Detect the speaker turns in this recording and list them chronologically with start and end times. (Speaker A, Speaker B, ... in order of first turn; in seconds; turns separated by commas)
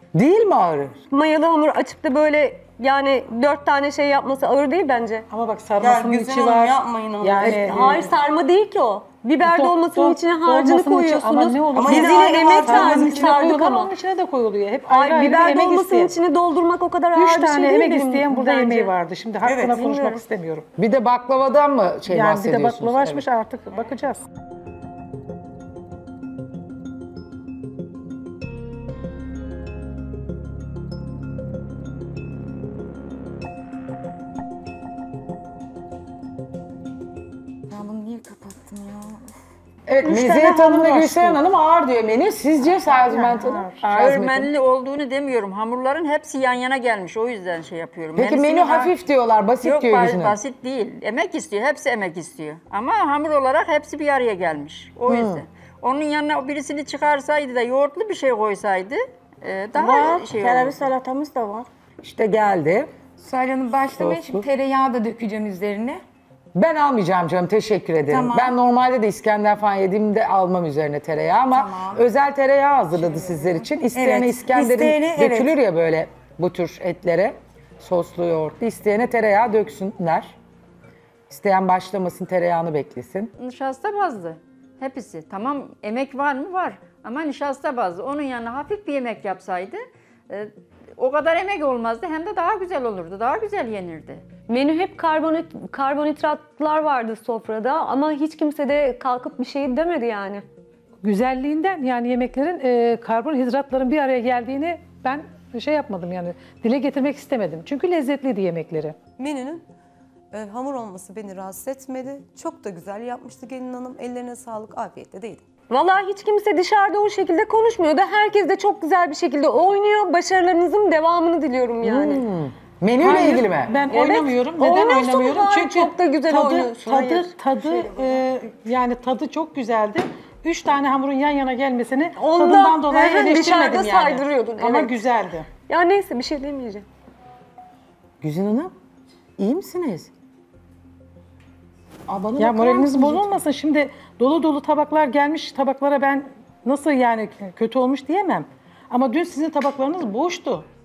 Speaker A: 0.1-1.0, Speaker B: 1.1-5.3, Speaker C: 5.3-8.0, Speaker D: 5.8-8.1, Speaker B: 7.3-13.9, Speaker C: 9.4-16.1, Speaker D: 11.7-13.4, Speaker B: 14.9-19.0, Speaker C: 17.1-20.6, Speaker D: 19.4-19.8, Speaker B: 19.7-20.2, Speaker A: 20.8-23.2, Speaker C: 22.1-24.2, Speaker E: 37.7-39.2, Speaker A: 39.9-44.5, Speaker F: 40.0-41.3, Speaker C: 42.9-43.7, Speaker G: 43.8-48.9, Speaker A: 48.1-50.4, Speaker G: 49.6-60.9, Speaker A: 55.1-55.4, Speaker F: 59.7-61.7, Speaker A: 62.0-62.9, Speaker E: 63.2-66.0, Speaker A: 63.9-64.5, Speaker A: 66.5-80.3, Speaker E: 68.1-68.5, Speaker E: 71.5-72.0, Speaker E: 73.1-75.5, Speaker A: 81.3-83.3, Speaker G: 83.4-94.2, Speaker B: 94.5-100.4, Speaker C: 101.0-109.0, Speaker D: 109.2-109.6, Speaker D: 110.3-115.4, Speaker B: 115.7-122.2, Speaker A: 121.8-123.7, Speaker C: 123.0-135.5, Speaker B: 123.8-128.0, Speaker B: 132.2-135.0, Speaker B: 135.6-136.8, Speaker A: 138.2-138.7, Speaker A: 139.4-140.1, Speaker E: 142.2-143.2, Speaker C: 142.3-150.7